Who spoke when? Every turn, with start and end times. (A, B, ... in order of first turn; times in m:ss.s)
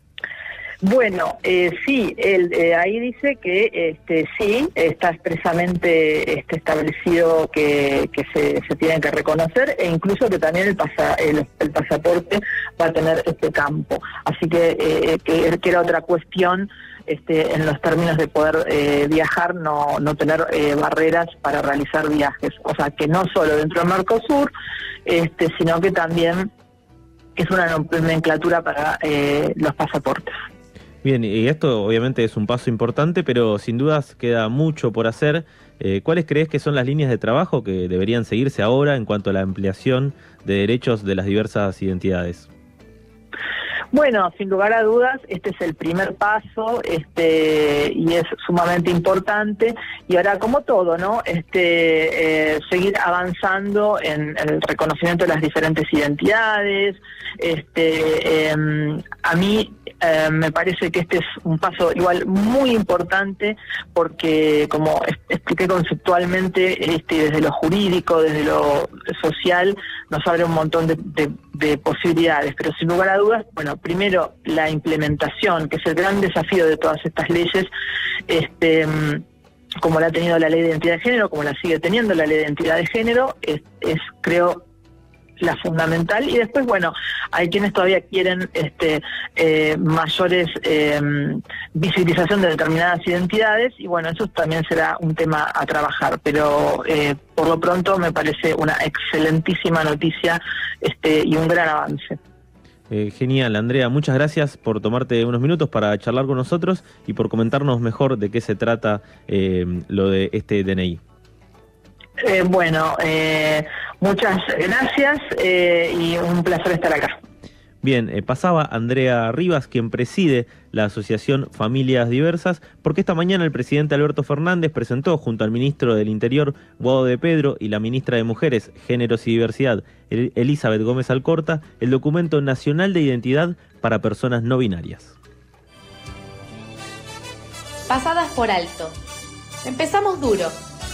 0:00.8-0:24.5 A
0:25.0-0:26.5 A
0:27.4-0:30.3 A
0:31.0-0:42.5 B
0:43.9-1:17.7 A
1:18.3-1:19.2 A
1:19.8-1:24.6 A
1:25.4-1:42.2 A
1:42.9-1:51.0 B
1:52.2-1:57.2 A
1:57.8-2:15.2 B
2:17.9-2:19.0 C
2:19.6-2:20.6 C